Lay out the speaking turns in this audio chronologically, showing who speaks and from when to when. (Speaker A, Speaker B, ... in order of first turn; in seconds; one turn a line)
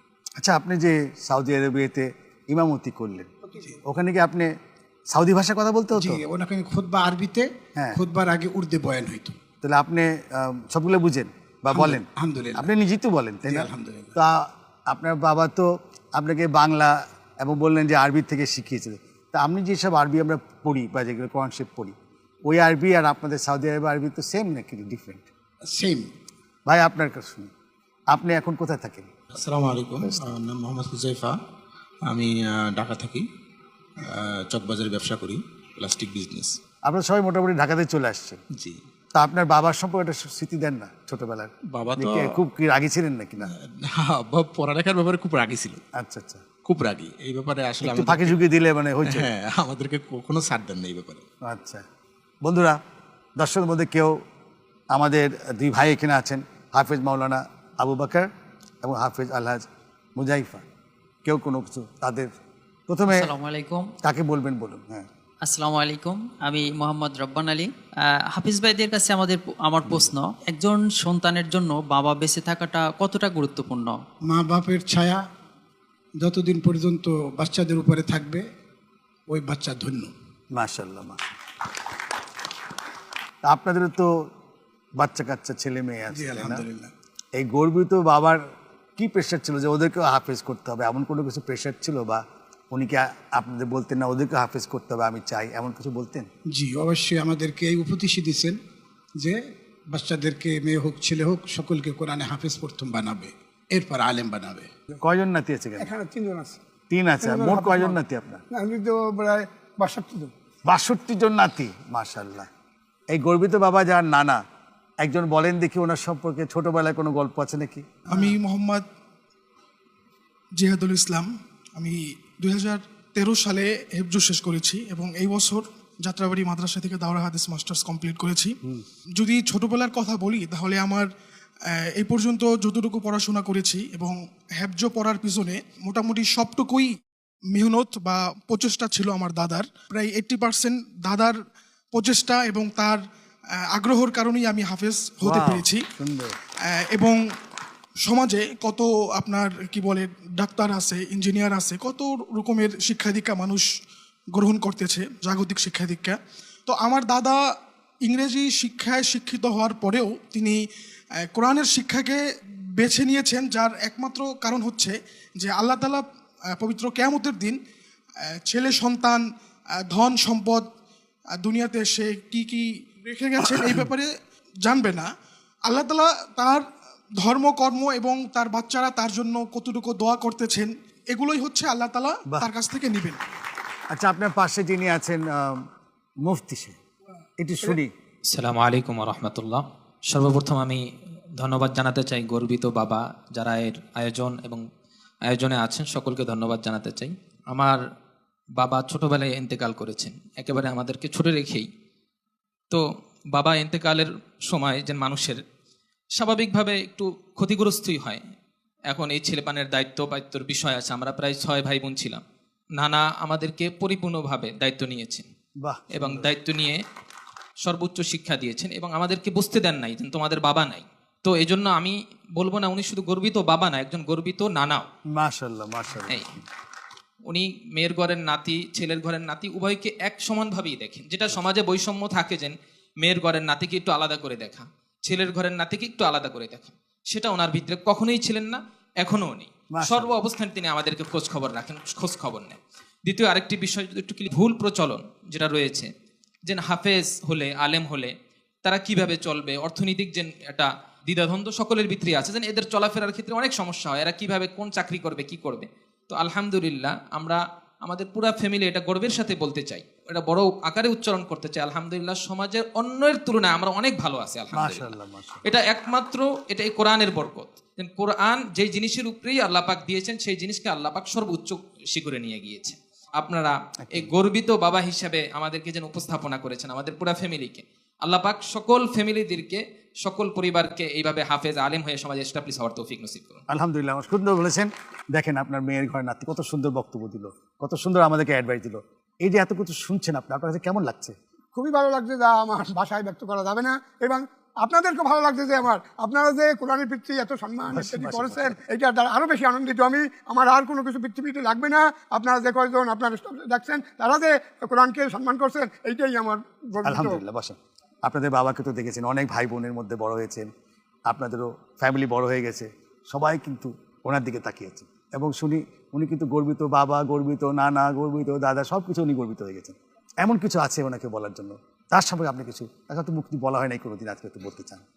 Speaker A: 0.4-3.3
Speaker A: 3.8-4.5
Speaker A: 5.1-6.2
Speaker B: 5.9-9.4
Speaker A: 9.6-25.3
Speaker B: 11.7-12.7
Speaker B: 13.5-14.2
Speaker B: 25.7-26.1
Speaker A: 26.7-27.5
Speaker A: 28.1-29.1
Speaker C: 29.3-31.4
Speaker C: 32.1-33.3
Speaker C: 34.0-36.6
Speaker A: 36.9-38.4
Speaker A: 39.1-43.5
Speaker C: 41.7-42.4
Speaker C: 44.0-45.8
Speaker A: 46.0-46.5
Speaker C: 46.6-48.4
Speaker A: 47.8-49.3
Speaker C: 49.0-51.2
Speaker A: 51.4-51.8
Speaker A: 52.4-52.8
Speaker A: 53.4-54.2
Speaker A: 54.9-58.3
Speaker A: 58.8-59.7
Speaker A: 60.2-60.6
Speaker A: 61.2-62.3
Speaker A: 62.9-63.3
Speaker D: 63.1-63.9
Speaker A: 64.0-65.1
Speaker D: 65.4-74.0
Speaker B: 74.3-75.2
Speaker B: 76.2-78.5
Speaker B: 79.3-80.1
Speaker A: 80.5-81.2
Speaker A: 83.4-84.1
Speaker A: 85.0-86.7
Speaker B: 86.1-86.9
Speaker A: 87.4-88.4
Speaker A: 89.0-96.3
Speaker B: 96.5-98.6
Speaker B: 99.2-104.7
Speaker A: 105.0-105.9
Speaker E: 105.8-106.6
Speaker A: 106.9-108.4
Speaker E: 107.2-108.0
Speaker E: 108.5-110.3
Speaker A: 110.7-112.5
Speaker A: 113.1-114.4
Speaker A: 115.0-117.9
Speaker F: 118.1-118.8
Speaker F: 120.6-128.6
Speaker F: 129.2-131.1
Speaker F: 131.7-136.9
Speaker F: 137.5-141.4
Speaker F: 141.9-143.0
Speaker F: 143.7-145.8
Speaker A: 145.2-146.4
Speaker F: 146.7-147.2
Speaker F: 148.0-153.7
Speaker F: 154.3-157.4
Speaker F: 158.1-160.6
Speaker F: 161.3-162.2
Speaker F: 162.8-167.6
Speaker F: 168.5-169.2
Speaker F: 169.9-170.7
Speaker F: 171.4-174.1
Speaker F: 174.7-175.1
Speaker F: 175.7-183.2
Speaker A: 183.9-185.6
Speaker A: 186.2-186.8
Speaker A: 187.4-187.9
Speaker G: 188.3-190.8
Speaker G: 191.4-194.6
Speaker G: 195.3-197.8
Speaker G: 198.6-201.7
Speaker G: 203.4-205.4
Speaker G: 206.2-208.2
Speaker G: 208.9-212.2
Speaker G: 212.8-215.3
Speaker A: 215.6-216.3
Speaker G: 215.9-216.8
Speaker G: 217.7-224.9
Speaker A: 225.2-226.3
Speaker G: 227.3-245.9
Speaker A: 239.8-240.2
Speaker G: 246.5-248.1
Speaker G: 248.6-264.9
Speaker A: 264.5-265.4
Speaker G: 265.4-283.4
Speaker A: 283.5-291.2
Speaker E: 291.6-307.2
Speaker A: 297.7-298.6
Speaker A: 306.8-310.5
Speaker A: 311.1-324.8